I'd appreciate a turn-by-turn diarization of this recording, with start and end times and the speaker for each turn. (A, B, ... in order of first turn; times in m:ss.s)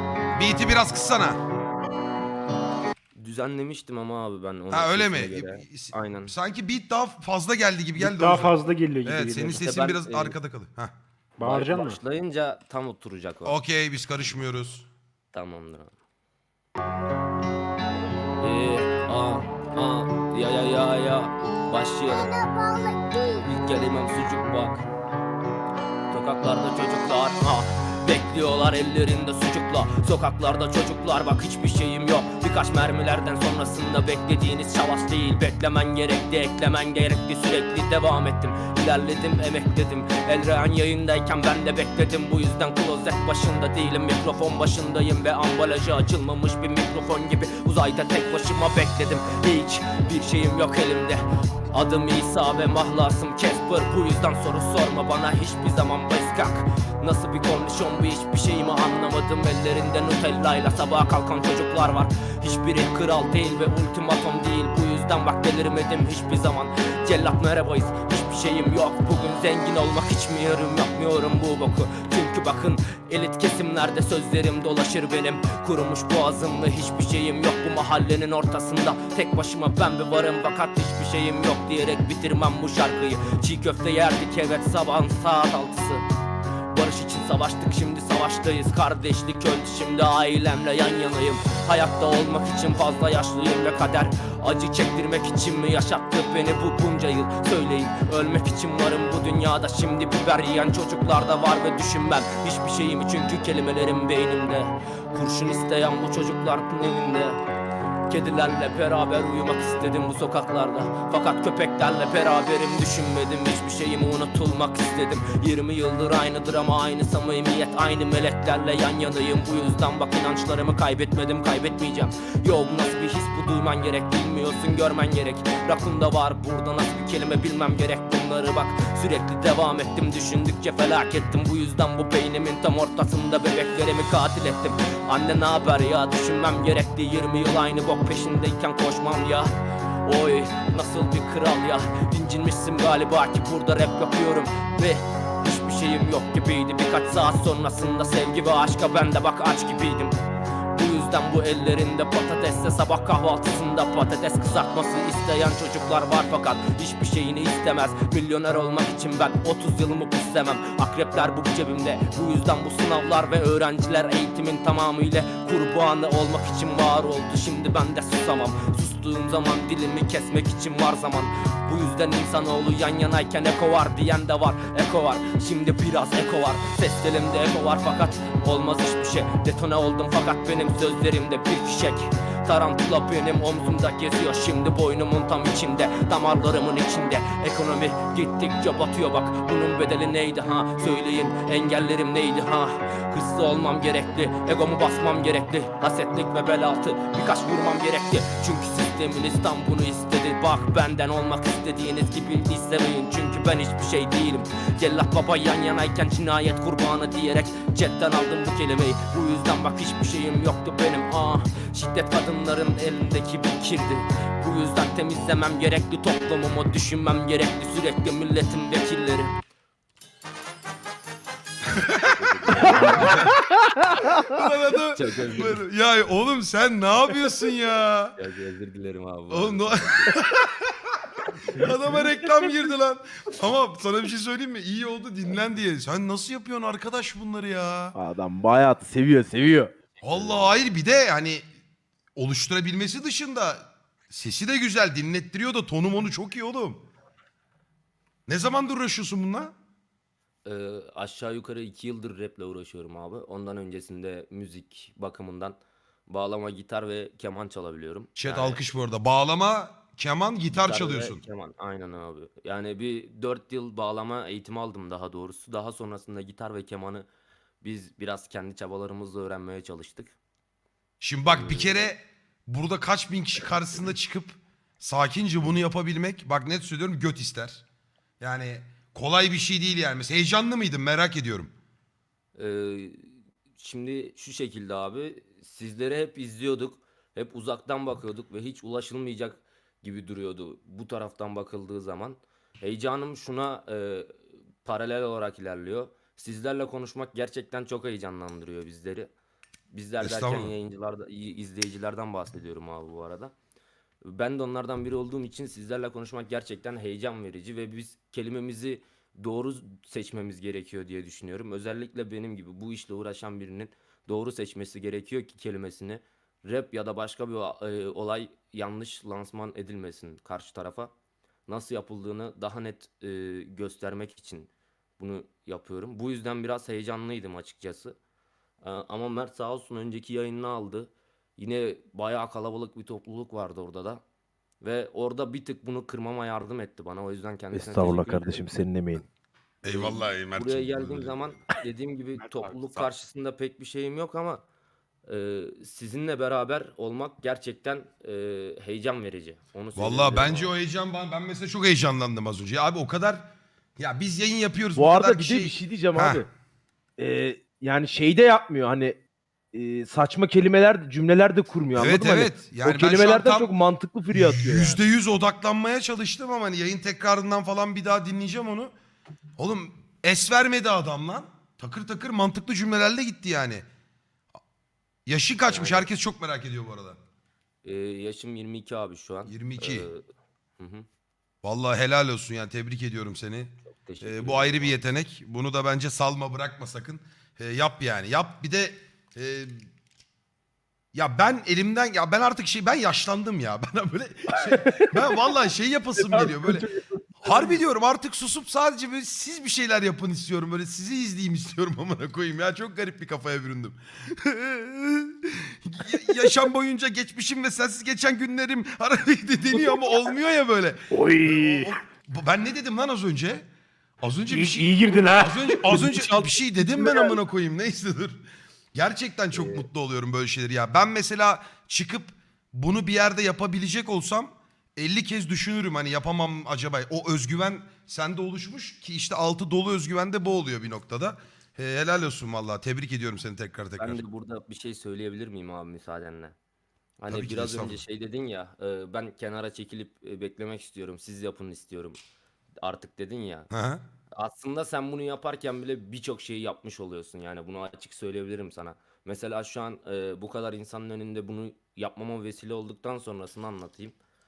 0:00.4-0:01.4 A
0:03.2-0:06.3 B
0:04.7-0:08.5 A
0:08.0-0:09.6 C
0:09.0-0:10.9 A
0:09.5-0:10.4 B
0:11.4-0:12.0 C
0:11.4-0:13.6 B
0:13.4-0:14.9 A
0:15.3-0:15.9 B
0:18.4-0:22.4 B
0:23.2-0:24.9 B
0:26.1-1:26.0 B
1:26.7-1:47.4 B
1:48.1-2:30.2 B
2:30.7-3:39.4 B
3:41.8-3:43.4 A
3:42.0-3:43.3 B
3:43.5-3:44.0 D
3:44.1-3:48.2 A
3:44.9-3:45.6 B
3:48.2-3:50.2 B
3:49.3-3:58.0 A
3:58.0-3:59.7 D
4:00.0-4:00.7 B
4:00.0-4:01.4 A
4:02.2-4:06.8 A
4:08.3-4:09.5 A
4:10.4-4:18.6 B
4:18.2-4:21.2 A
4:20.5-4:27.1 B
4:27.6-4:30.1 B
4:31.0-4:37.6 A
4:31.3-4:31.9 B
4:38.2-4:41.5 A
4:42.4-4:59.1 B
4:59.7-5:03.3 B
5:00.0-5:00.5 A
5:04.0-5:20.9 B
5:21.5-5:28.0 B
5:28.6-5:34.0 B
5:34.6-5:38.4 B
5:37.5-5:39.1 D
5:39.6-5:41.4 A
5:39.6-5:44.4 B
5:42.6-5:42.9 A
5:45.1-5:50.5 B
5:49.8-5:56.2 A
5:54.8-5:56.3 D
5:57.0-5:59.0 D
5:59.5-6:04.8 D
6:01.8-6:03.5 A
6:04.1-6:08.7 A
6:09.4-6:13.6 A
6:15.1-6:17.0 A
6:15.5-6:15.9 B
6:17.6-6:20.0 B
6:19.3-6:19.9 A
6:20.6-6:20.9 B
6:21.4-6:29.7 A
6:23.7-6:24.8 B
6:30.9-6:36.7 A
6:34.5-6:35.1 D
6:36.0-6:37.3 D
6:37.2-6:53.5 A
6:50.9-6:51.7 C
6:54.0-6:58.2 A
6:54.3-6:57.2 C
6:58.8-7:14.0 A
6:59.3-6:59.7 B
7:13.8-7:16.4 B
7:17.0-7:22.0 B
7:17.1-7:17.8 A
7:22.6-7:23.5 B
7:23.5-7:23.8 A
7:24.2-7:34.0 B